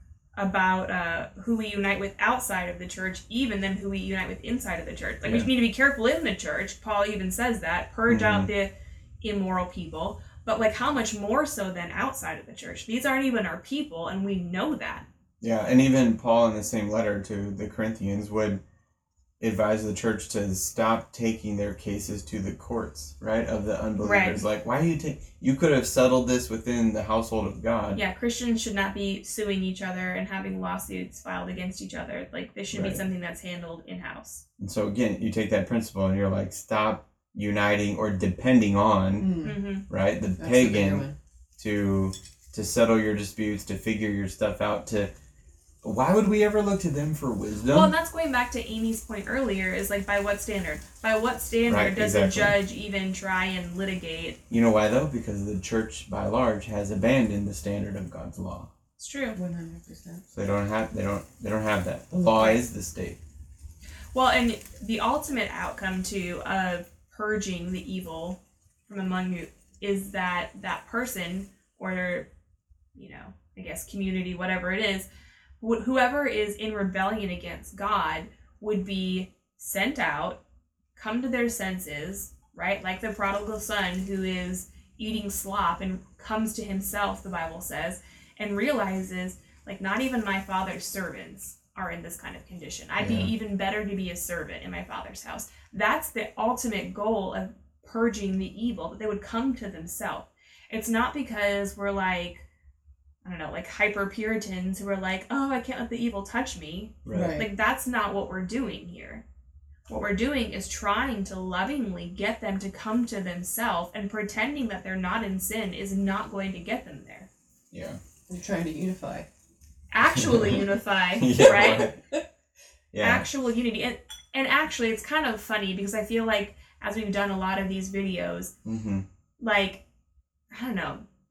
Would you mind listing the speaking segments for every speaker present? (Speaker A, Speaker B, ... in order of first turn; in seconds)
Speaker A: 0.4-15.1, 24.0-24.4, 27.9-34.4, 39.4-39.9, 47.7-54.4, 59.0-59.4, 62.3-62.6, 64.1-72.3, 73.0-75.1, 75.6-80.4, 81.0-102.5, 103.2-109.2, 109.9-117.3, 119.9-121.9, 123.0-128.5, 129.4-129.8, 130.5-131.1
Speaker B: 5.2-5.5, 8.1-8.5, 15.4-18.6, 19.4-28.0, 32.7-33.0, 34.6-39.3, 39.9-41.1, 41.6-45.1, 45.8-47.9, 51.7-52.6, 54.5-58.7, 60.3-63.2, 93.0-93.3, 107.0-107.4, 117.7-118.0, 120.2-120.6, 121.2-122.0, 122.9-123.3, 128.7-129.1
Speaker C: 39.2-39.6, 40.4-41.2, 59.4-60.2, 107.1-107.5, 118.3-119.3